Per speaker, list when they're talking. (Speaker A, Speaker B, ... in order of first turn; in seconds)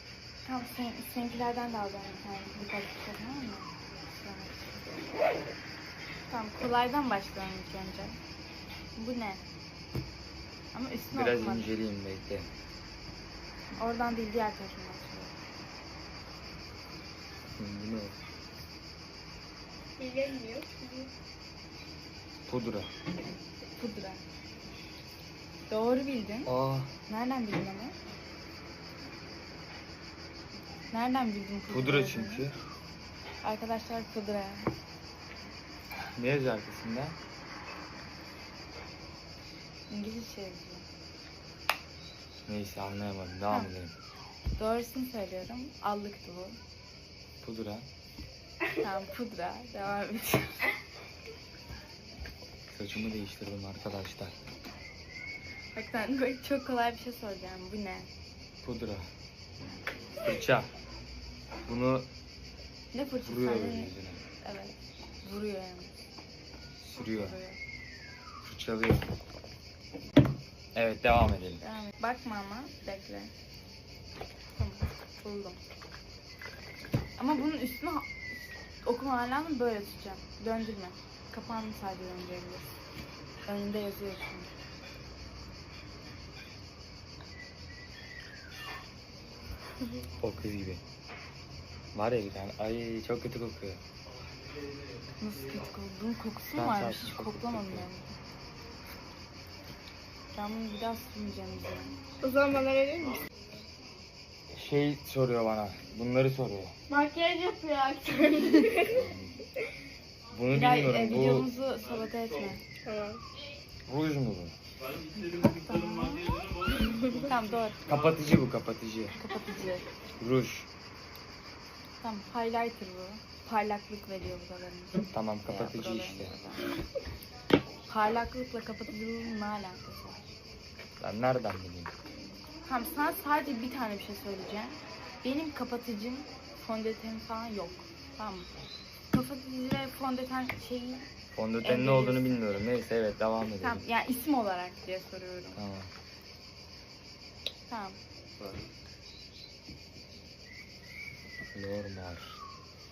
Speaker A: 0.5-4.8, 6.3-8.2, 9.0-9.4, 10.7-11.7, 13.8-15.3, 23.8-24.2, 25.7-26.5, 27.1-27.9, 30.9-32.4, 33.4-34.7, 39.9-40.9, 44.6-46.6, 48.8-50.7, 55.7-58.1, 62.9-65.9, 67.0-67.6, 71.6-73.3, 74.6-75.6, 77.2-82.8, 83.5-84.5, 95.2-98.2, 100.3-102.0, 106.9-108.8, 110.5-112.6, 115.1-116.5, 117.1-117.8, 119.2-119.9, 122.0-126.7, 127.9-130.3, 132.6-138.5, 139.1-141.1, 141.6-142.3, 143.6-145.6, 147.7-148.6
Speaker B: 11.1-12.5, 17.6-18.2, 22.5-22.9, 26.5-26.9, 31.7-32.6, 36.2-37.2, 42.5-43.9, 47.4-47.9, 52.7-54.4, 58.6-59.1, 60.2-60.7, 61.7-62.1, 63.2-64.2, 66.8-67.4, 68.4-69.1, 70.8-71.6, 90.2-90.8, 91.9-93.8, 96.5-97.9, 104.5-106.7, 108.8-109.4, 110.3-111.5, 113.9-114.5, 117.9-119.2, 120.2-120.7, 125.1-126.3, 131.0-131.9, 141.3-143.9, 145.6-145.9, 151.5-152.4
Speaker C: 20.0-21.1, 102.2-103.2, 106.9-109.0, 112.8-113.2